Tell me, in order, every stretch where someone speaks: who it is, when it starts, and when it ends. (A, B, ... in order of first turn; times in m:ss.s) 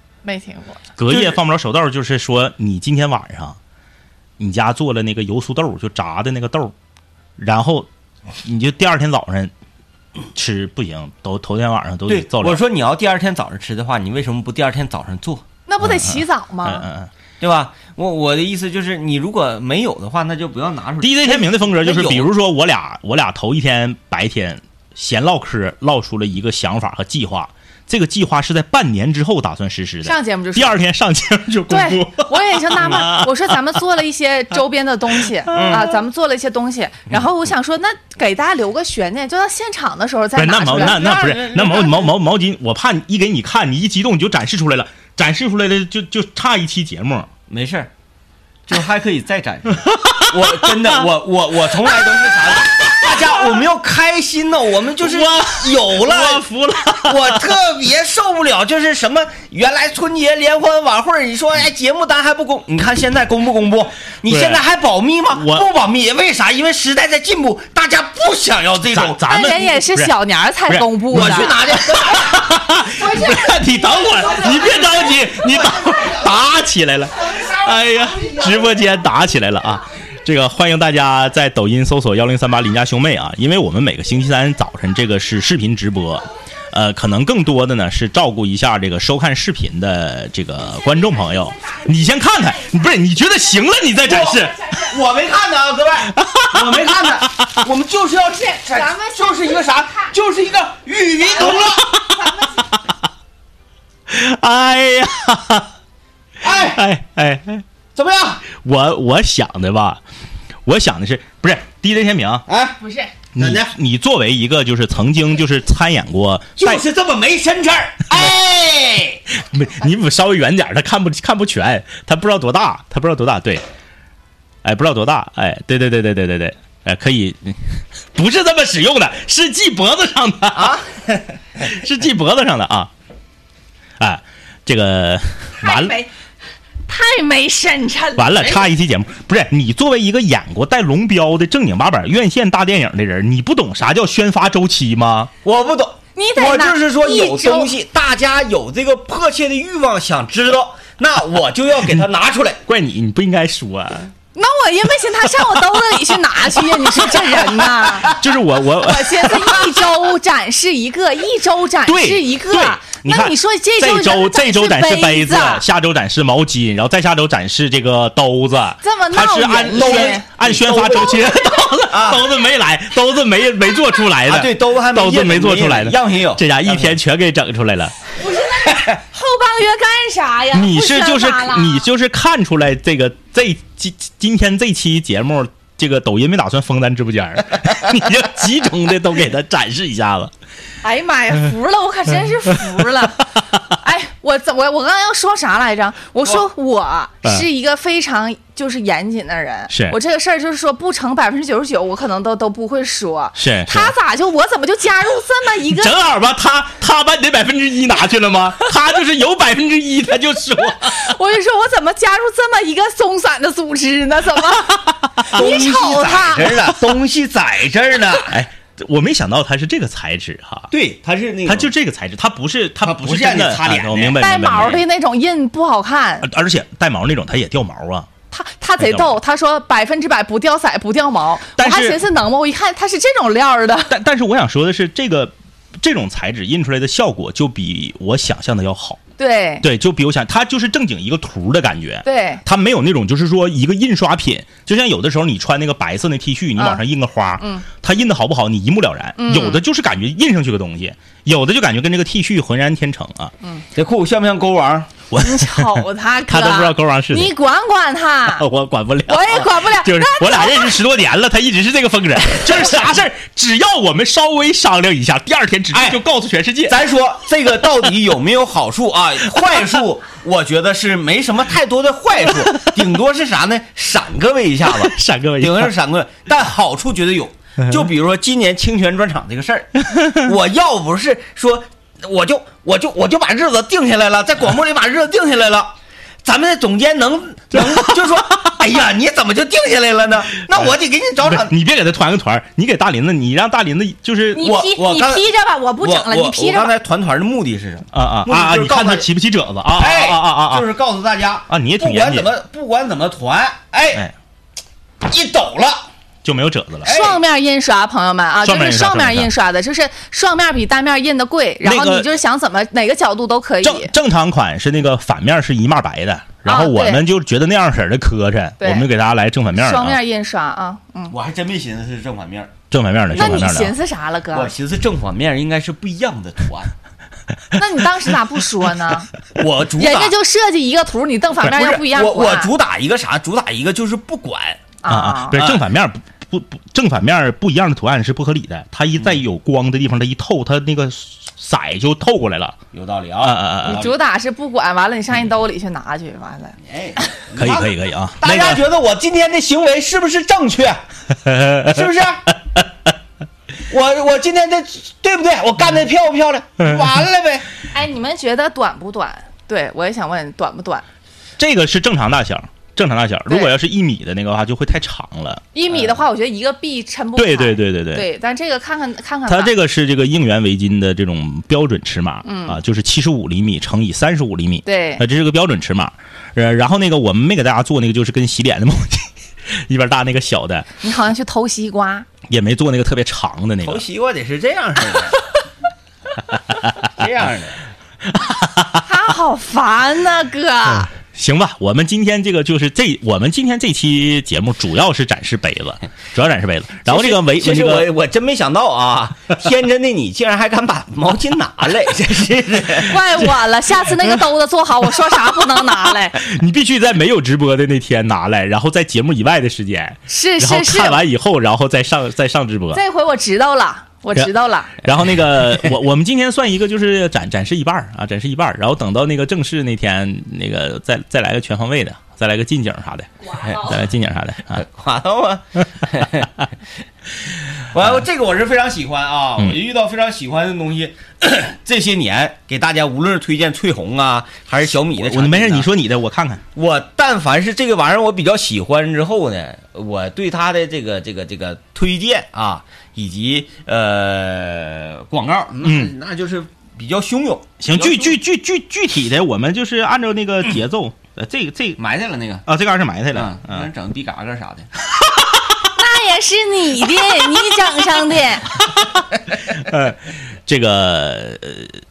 0:00.2-0:00.9 A
0:01.0-0:03.6 B
0:01.1-0:01.4 C
0:04.4-0:06.7 B
0:07.4-0:07.9 B
0:08.4-0:09.5 B
0:10.3-0:12.6 B
0:12.1-0:15.4 C
0:15.7-0:16.9 A
0:15.8-0:17.1 B
0:17.4-0:22.3 C
0:21.0-0:33.8 B
0:30.0-0:30.8 A
0:31.7-0:41.3 A
0:35.2-0:36.0 B
0:35.5-0:35.8 C
0:40.4-0:47.3 B
0:40.7-0:42.1 C
0:47.5-0:47.9 C
0:48.7-1:09.2 C
0:49.8-0:51.1 B
0:51.9-0:52.2 B
0:52.8-0:53.4 B
0:55.0-0:57.5 B
1:04.3-1:04.6 B
1:05.3-1:05.6 B
1:08.9-1:10.1 B
1:09.2-1:11.6 A
1:10.7-1:34.6 B
1:11.1-1:12.3 C
1:31.1-1:32.8 A
1:34.1-1:41.8 C
1:34.4-1:34.9 A
1:36.1-1:36.8 B
1:38.5-1:40.1 A
1:41.4-1:42.7 B
1:41.4-1:42.6 A
1:44.1-1:45.7 B
1:46.4-1:46.8 C
1:46.5-1:47.6 B
1:48.0-1:48.4 C
1:48.5-1:50.0 B
1:50.7-1:52.5 B
1:52.5-1:52.8 C
1:52.8-1:53.1 A
1:53.4-1:56.8 B
1:53.4-1:53.7 C
1:56.6-1:59.2 C
1:59.3-2:03.6 B
2:04.6-2:10.8 B
2:10.6-2:11.2 C
2:11.6-2:12.9 B
2:14.0-2:16.0 B
2:15.6-2:16.1 A
2:16.9-2:18.6 A
2:18.2-2:25.3 B
2:25.4-2:32.6 C
2:26.2-2:27.7 A
2:32.7-2:34.1 B
2:34.4-2:38.2 A
2:38.1-2:39.7 B
2:38.7-2:45.6 A
2:41.9-2:58.0 B
2:48.8-2:50.3 A
2:49.7-2:51.2 C
2:51.9-2:52.2 C
2:54.3-2:57.0 C
2:58.2-3:01.9 A
3:00.5-3:10.3 B
3:10.8-3:25.9 A
3:19.7-3:20.0 B
3:23.4-3:23.9 B
3:25.7-3:31.1 B
3:30.8-3:36.6 A
3:35.3-3:38.4 C
3:38.3-3:40.7 B
3:40.7-3:41.7 C
3:41.5-3:44.8 B
3:42.8-3:44.2 C
3:44.2-3:46.3 A
3:46.2-3:48.1 B
3:48.3-3:53.9 A
3:48.8-3:49.2 B
3:51.6-3:52.0 B
3:53.9-3:59.0 B
3:59.2-3:59.7 A
3:59.6-4:13.3 B
4:02.1-4:02.4 A
4:06.6-4:06.8 A
4:07.4-4:07.7 A
4:09.2-4:09.6 A
4:13.8-4:14.9 C
4:15.1-4:17.3 B
4:15.2-4:18.5 A
4:18.3-4:26.8 B
4:19.1-4:20.8 A
4:25.7-4:26.0 C
4:26.7-4:51.5 C
4:34.7-4:35.7 B
4:39.9-4:40.2 B
4:47.5-4:47.9 B
4:51.2-4:54.6 B
4:54.3-4:56.7 A
4:54.4-4:55.3 C
4:55.8-4:59.1 C
4:57.9-5:00.7 B
4:59.7-5:04.1 C
5:01.5-5:02.3 B
5:05.0-5:05.9 C
5:06.2-5:06.9 B
5:06.8-5:07.2 C
5:06.9-5:13.9 A
5:08.4-5:09.3 B
5:11.6-5:12.1 B
5:13.6-5:20.0 B
5:16.5-5:17.0 A
5:18.6-5:18.9 A
5:19.6-5:21.1 A
5:21.1-5:22.5 C
5:22.7-5:23.8 B
5:23.2-5:24.5 A
5:24.3-5:26.7 C
5:27.6-5:29.1 A
5:29.4-5:30.1 C
5:29.8-5:32.5 A
5:31.4-5:34.6 C
5:34.8-5:35.5 A
5:34.9-5:42.6 B
5:35.4-5:35.6 C
5:42.7-5:43.9 C
5:43.2-5:43.9 B
5:43.6-5:47.0 A
5:46.6-5:50.8 C
5:47.4-5:48.6 B
5:51.2-5:51.8 B
5:51.6-5:52.3 C
5:53.7-5:57.5 C
5:57.7-6:00.8 A
6:01.4-6:05.4 B
6:05.5-6:09.6 A
6:07.2-6:08.1 B
6:09.3-6:20.7 B
6:12.2-6:12.6 A
6:14.7-6:15.0 A
6:20.8-6:22.1 A
6:22.3-6:23.8 B
6:23.6-6:25.2 C
6:26.9-6:27.6 C
6:28.1-6:28.8 B
6:28.8-6:30.9 A
6:30.8-6:37.9 B
6:36.9-6:43.0 C
6:42.8-6:46.2 A
6:46.2-6:52.8 B
6:50.1-6:51.0 A
6:52.7-6:54.8 A
6:54.8-7:04.6 B
7:03.4-7:03.7 C
7:04.5-7:06.3 C
7:07.7-7:15.7 C
7:15.0-7:16.4 B
7:16.6-7:28.2 C
7:25.6-7:25.9 B
7:27.6-7:31.8 B
7:31.8-7:32.5 C
7:32.5-7:33.7 B
7:33.1-7:34.7 C
7:35.7-7:38.6 A
7:39.4-7:41.8 B